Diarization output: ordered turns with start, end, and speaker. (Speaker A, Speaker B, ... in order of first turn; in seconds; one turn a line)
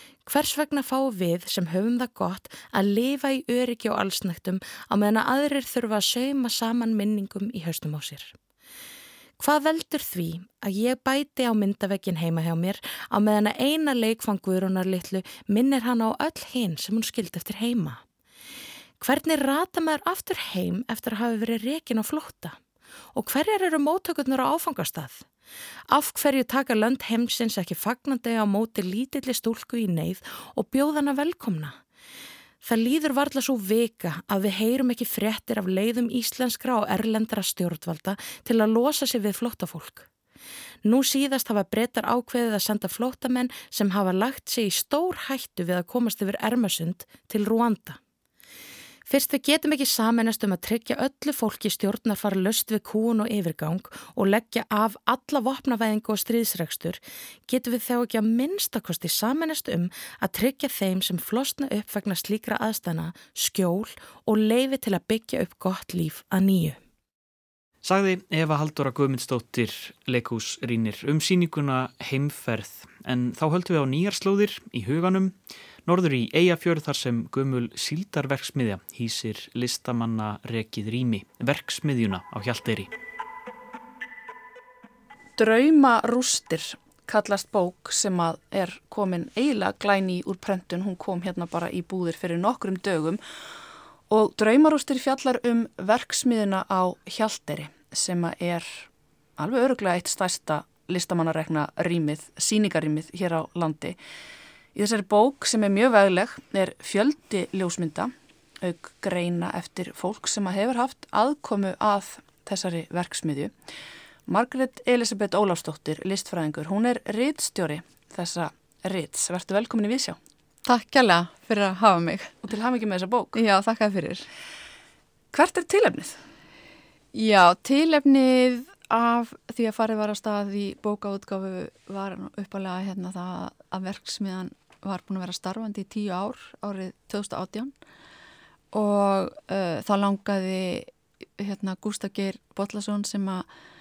Speaker A: 0.3-8.4
Speaker A: 9.4-18.0
Speaker A: 19.0-22.6
Speaker A: 23.1-25.3
Speaker A: 25.9-31.8
Speaker A: 32.6-40.1
Speaker A: 40.8-48.0
Speaker A: 49.1-66.8
Speaker B: 67.8-75.3
Speaker B: 75.9-82.9
Speaker C: 85.4-93.2
Speaker C: 94.1-104.0
Speaker C: 104.8-113.5
Speaker C: 114.3-120.2
Speaker D: 120.6-122.4
Speaker C: 122.4-123.4
Speaker D: 123.3-124.3
Speaker C: 125.3-126.2
Speaker D: 127.1-137.7
Speaker D: 138.7-143.5